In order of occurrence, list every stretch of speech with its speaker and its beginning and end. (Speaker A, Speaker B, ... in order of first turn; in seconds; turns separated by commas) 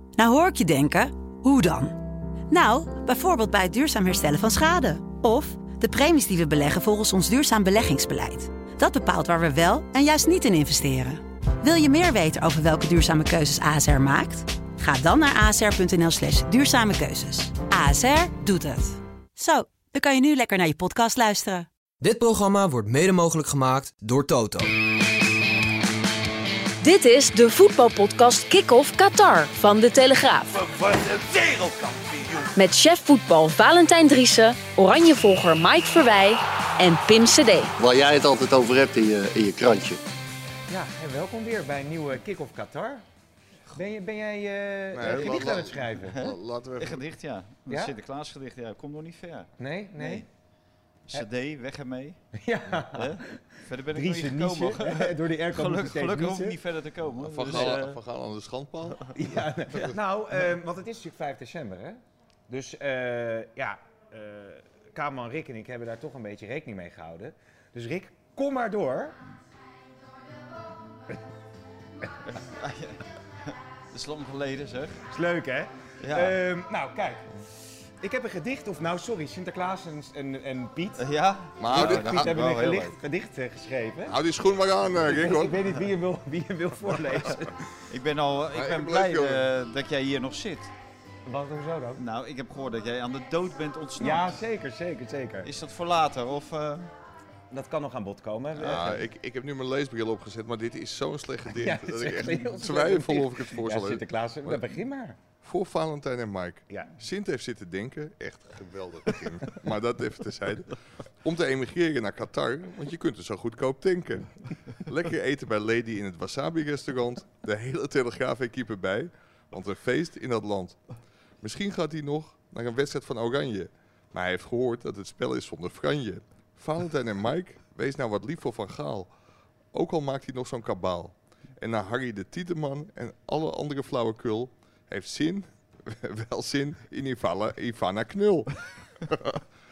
Speaker A: 0.2-2.0, Speaker A: 2.5-21.7, Speaker B: 22.0-24.7, Speaker C: 26.8-30.7, Speaker D: 30.9-31.6, Speaker C: 32.5-37.7, Speaker D: 37.8-40.0, Speaker E: 40.7-43.0, Speaker E: 43.8-46.2, Speaker F: 44.9-47.0, Speaker G: 45.1-50.3, Speaker E: 47.7-47.9, Speaker E: 49.6-50.2, Speaker G: 51.1-52.2, Speaker E: 52.4-56.6, Speaker G: 52.9-58.0, Speaker F: 57.2-60.0, Speaker E: 57.5-57.8, Speaker E: 59.1-69.2, Speaker G: 72.3-73.0, Speaker G: 73.9-75.0, Speaker E: 75.1-77.3, Speaker G: 76.0-76.4, Speaker E: 78.0-81.0, Speaker G: 81.0-83.0, Speaker F: 81.6-82.4, Speaker E: 81.7-84.2, Speaker F: 84.1-85.6, Speaker E: 85.0-87.6, Speaker G: 87.9-90.7, Speaker F: 88.5-89.5, Speaker E: 91.3-92.0, Speaker G: 92.0-94.4, Speaker E: 94.0-95.5, Speaker G: 95.4-96.9, Speaker E: 97.5-99.0, Speaker G: 98.5-98.8, Speaker F: 98.6-104.7, Speaker E: 101.5-105.2, Speaker F: 105.4-120.8, Speaker F: 121.4-129.1, Speaker F: 129.7-139.4